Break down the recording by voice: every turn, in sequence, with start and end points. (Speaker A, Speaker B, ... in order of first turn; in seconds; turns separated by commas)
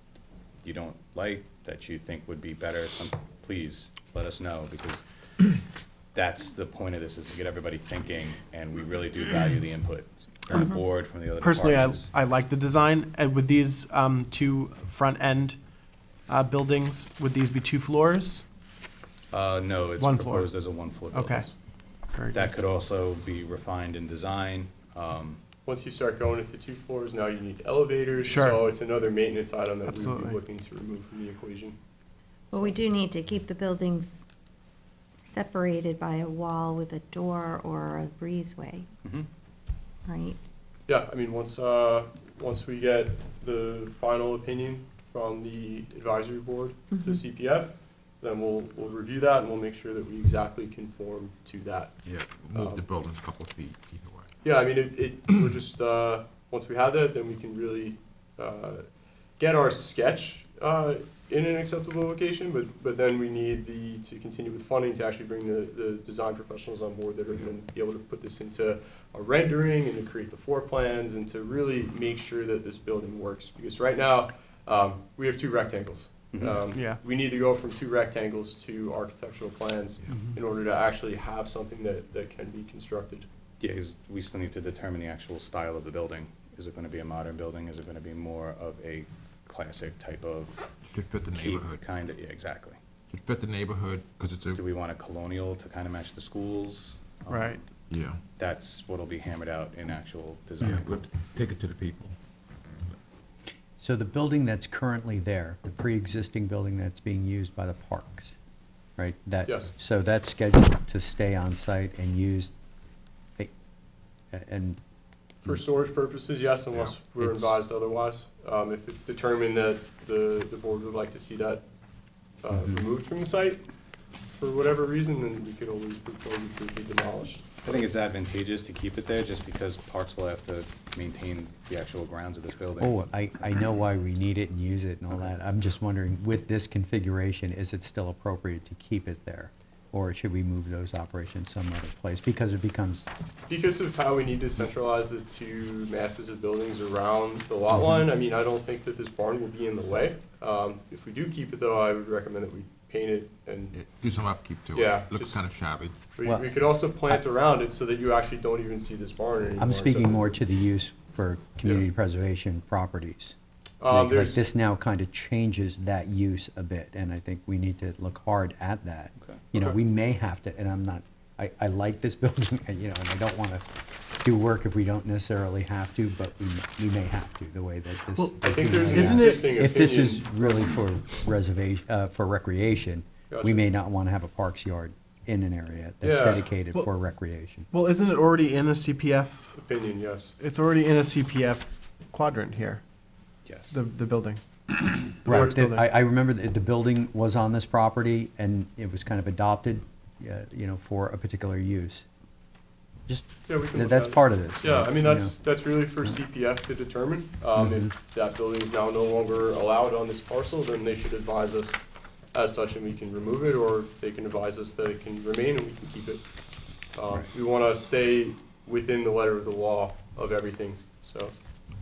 Speaker A: 0.6-5.0, Speaker A: 6.1-12.1, Speaker B: 10.5-10.8, Speaker C: 11.2-18.4, Speaker B: 16.8-18.2, Speaker A: 19.3-21.6, Speaker C: 20.0-21.4, Speaker B: 20.0-20.4, Speaker B: 21.1-21.5, Speaker C: 22.0-22.3, Speaker A: 22.3-25.4, Speaker D: 25.6-31.8, Speaker C: 28.3-28.6, Speaker C: 29.9-30.4, Speaker B: 32.5-34.2, Speaker B: 35.3-38.9, Speaker B: 40.0-40.4, Speaker D: 40.9-52.0, Speaker B: 46.9-47.2, Speaker E: 52.0-54.3, Speaker D: 52.5-52.8, Speaker D: 54.4-83.3, Speaker A: 76.3-76.6, Speaker A: 83.6-90.6, Speaker E: 90.9-91.8, Speaker A: 91.3-92.8, Speaker E: 93.1-94.6, Speaker A: 94.6-97.7, Speaker C: 97.3-97.6, Speaker E: 97.9-98.2, Speaker A: 98.4-101.1, Speaker E: 100.6-102.2, Speaker F: 103.8-108.3, Speaker F: 109.0-112.5, Speaker D: 109.5-109.7, Speaker F: 114.3-114.8, Speaker D: 115.4-121.7, Speaker F: 117.2-117.5, Speaker D: 122.4-123.7, Speaker D: 124.3-127.8, Speaker A: 127.7-132.9, Speaker F: 132.8-143.1, Speaker D: 143.5-153.8, Speaker E: 153.7-156.0, Speaker D: 154.7-155.4, Speaker D: 156.1-160.3, Speaker F: 156.2-157.2, Speaker F: 159.6-163.3, Speaker D: 163.8-164.4, Speaker F: 163.9-187.7, Speaker D: 178.4-180.8, Speaker C: 178.9-179.4, Speaker D: 183.3-183.7, Speaker D: 186.0-186.5, Speaker C: 187.7-189.5, Speaker D: 189.5-190.3, Speaker C: 190.4-192.8, Speaker A: 193.4-193.8, Speaker C: 193.7-194.4, Speaker F: 195.2-202.1, Speaker D: 195.3-195.6, Speaker C: 195.3-195.8, Speaker F: 203.1-205.4, Speaker D: 203.5-216.2, Speaker F: 207.6-207.9, Speaker D: 216.9-221.3